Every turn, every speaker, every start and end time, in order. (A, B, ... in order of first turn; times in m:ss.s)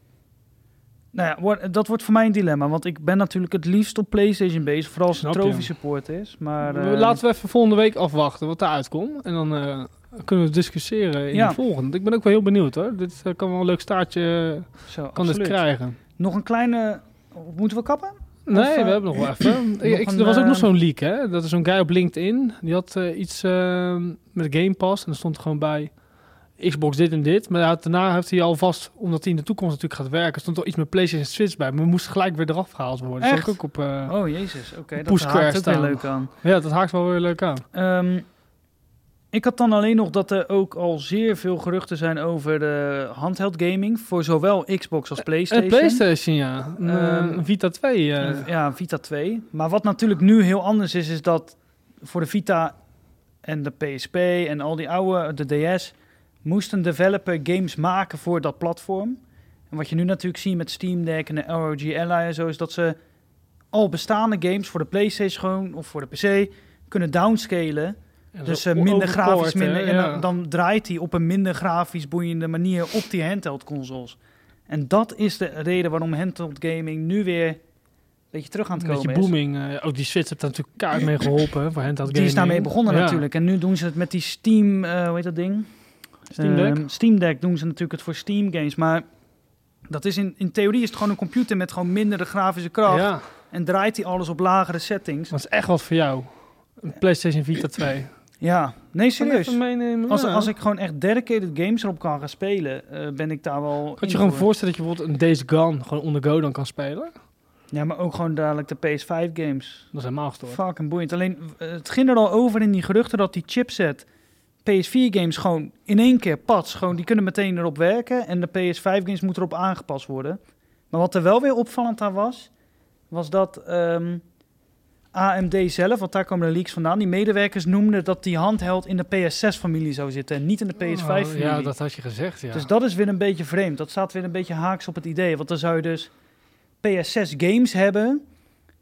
0:01.1-0:07.2 A
0:05.1-0:05.7 B
0:06.6-0:16.0 B
0:11.3-0:11.6 A
0:14.9-0:15.6 A
0:16.2-0:20.7 A
0:18.5-0:25.9 B
0:26.6-0:34.1 B
0:33.2-0:36.3 A
0:35.0-0:37.6 B
0:37.7-0:38.2 A
0:39.3-0:46.0 A
0:45.5-0:48.4 B
0:46.8-0:47.4 A
0:48.2-0:52.7 A
0:53.4-0:59.2 A
0:59.7-1:03.0 A
1:03.7-1:14.2 A
1:08.3-1:10.2 B
1:14.7-1:17.6 A
1:18.3-1:19.3 A
1:18.8-1:23.2 B
1:22.1-1:25.7 A
1:26.3-1:26.8 B
1:26.3-1:29.0 A
1:29.9-1:35.3 A
1:32.9-1:33.2 B
1:35.3-1:38.1 B
1:38.4-1:44.4 A
1:39.2-1:40.5 B
1:44.0-1:47.1 B
1:47.7-1:49.9 A
1:49.9-1:50.6 B
1:50.5-1:54.0 A
1:54.6-2:00.4 A
2:00.9-2:02.5 A
2:03.1-2:04.2 A
2:05.1-2:11.7 A
2:10.8-2:12.7 B
2:12.5-2:16.1 A
2:16.8-2:18.2 A